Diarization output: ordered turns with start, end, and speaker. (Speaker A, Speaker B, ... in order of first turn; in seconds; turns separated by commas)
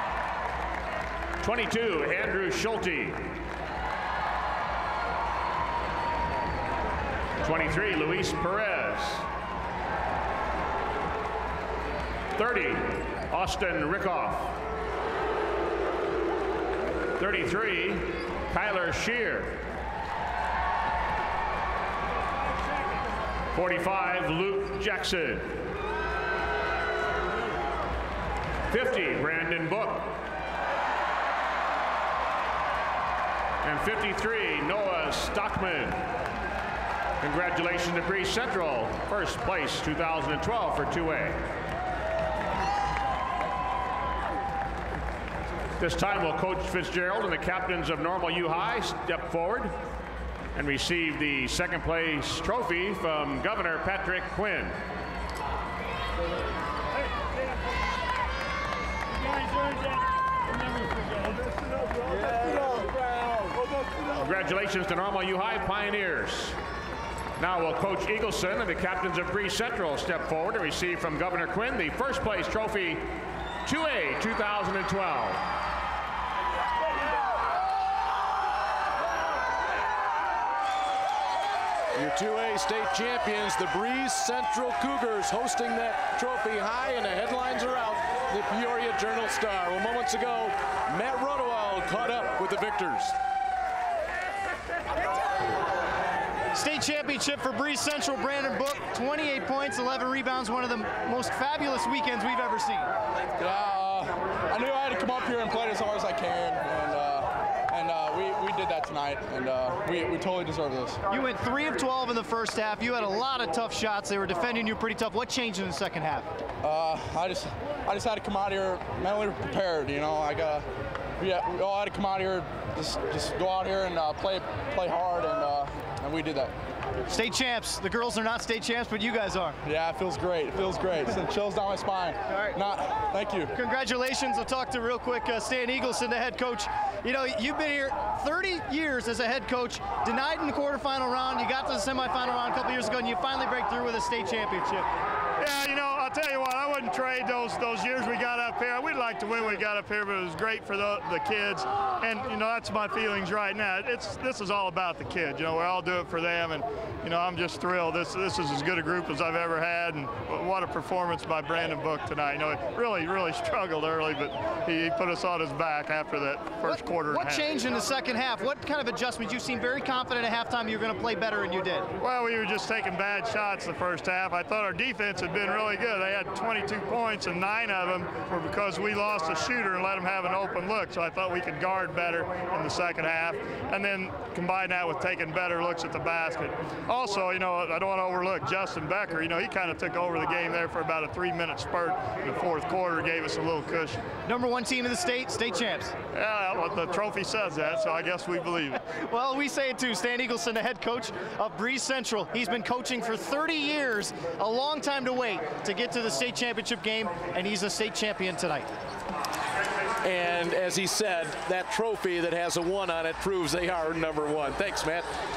Speaker A: 1.4-3.4, Speaker A: 7.4-9.2, Speaker A: 12.3-14.6, Speaker A: 17.2-19.7, Speaker A: 23.5-25.7, Speaker A: 28.7-30.2, Speaker A: 33.6-36.0, Speaker A: 37.2-41.4, Speaker A: 45.8-49.8, Speaker A: 50.5-54.8, Speaker A: 64.1-66.6, Speaker A: 67.4-75.5, Speaker B: 81.9-93.2, Speaker C: 96.5-102.9, Speaker D: 103.4-111.0, Speaker C: 111.1-116.3, Speaker D: 116.6-120.7, Speaker D: 121.2-126.5, Speaker C: 127.1-129.6, Speaker D: 129.6-133.5, Speaker C: 132.3-132.6, Speaker C: 133.5-144.9, Speaker E: 145.4-167.6, Speaker C: 166.6-171.9, Speaker E: 172.0-194.0, Speaker C: 194.2-195.9, Speaker E: 196.1-198.8, Speaker C: 199.0-208.7, Speaker B: 210.0-215.1